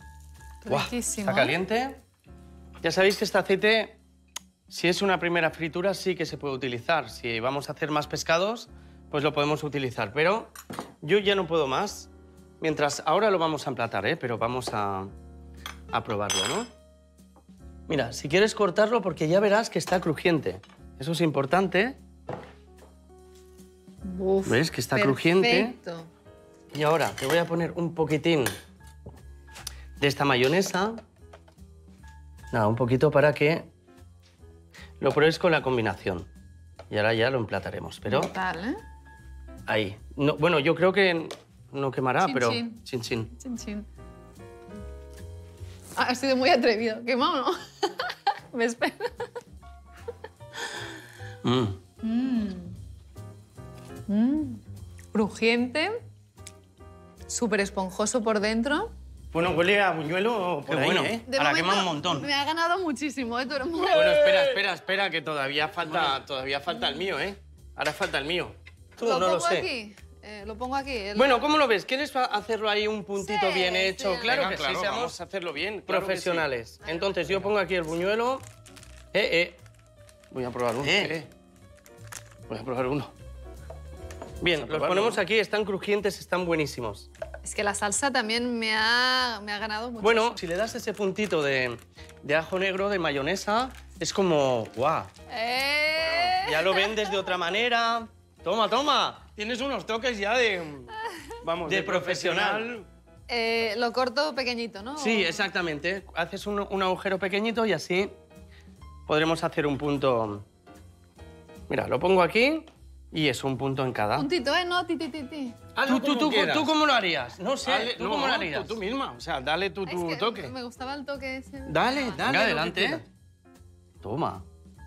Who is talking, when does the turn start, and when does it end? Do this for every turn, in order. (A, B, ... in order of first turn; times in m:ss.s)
0:00.6-0:01.6 A
0:00.7-0:02.0 B
0:02.8-0:04.0 B
0:04.7-0:10.5 B
0:11.0-0:15.1 B
0:15.9-0:16.7 B
0:17.9-0:22.0 B
0:24.0-0:26.1 A
0:24.4-0:25.8 B
0:26.7-0:28.5 B
0:30.0-0:31.0 B
0:32.5-0:33.7 B
0:35.0-0:36.3 B
0:36.9-0:38.3 B
0:38.1-0:38.8 A
0:39.7-0:43.3 B
0:42.2-0:42.8 A
0:43.3-0:43.9 A
0:46.0-0:49.3 A
0:51.4-0:51.8 B
0:52.0-0:52.8 A
0:54.1-0:54.6 A
0:55.1-0:56.0 A
0:57.3-0:58.9 A
0:59.3-1:01.2 C
1:00.7-1:02.3 B
1:01.3-1:04.2 A
1:03.9-1:09.7 B
1:03.9-1:04.7 C
1:05.8-1:06.2 C
1:06.7-1:07.0 A
1:09.0-1:11.5 A
1:11.2-1:15.2 B
1:13.2-1:14.3 A
1:14.2-1:16.5 C
1:15.9-1:18.4 B
1:16.9-1:17.2 A
1:19.1-1:19.6 B
1:20.3-1:21.3 C
1:20.8-1:21.2 B
1:22.5-1:23.0 C
1:22.5-1:23.1 B
1:24.4-1:27.1 B
1:24.5-1:25.2 C
1:27.4-1:30.4 A
1:30.0-1:35.1 B
1:35.3-1:37.2 A
1:36.2-1:39.3 B
1:39.2-1:42.9 C
1:41.6-1:42.7 B
1:43.3-1:45.5 A
1:45.0-1:48.2 B
1:49.1-1:50.4 B
1:51.7-1:54.3 B
1:54.2-1:55.6 A
1:55.8-1:58.8 B
1:55.8-1:56.7 C
1:57.6-2:00.5 C
1:59.8-2:02.2 A
2:01.7-2:03.0 B
2:02.1-2:03.0 C
2:04.0-2:04.4 B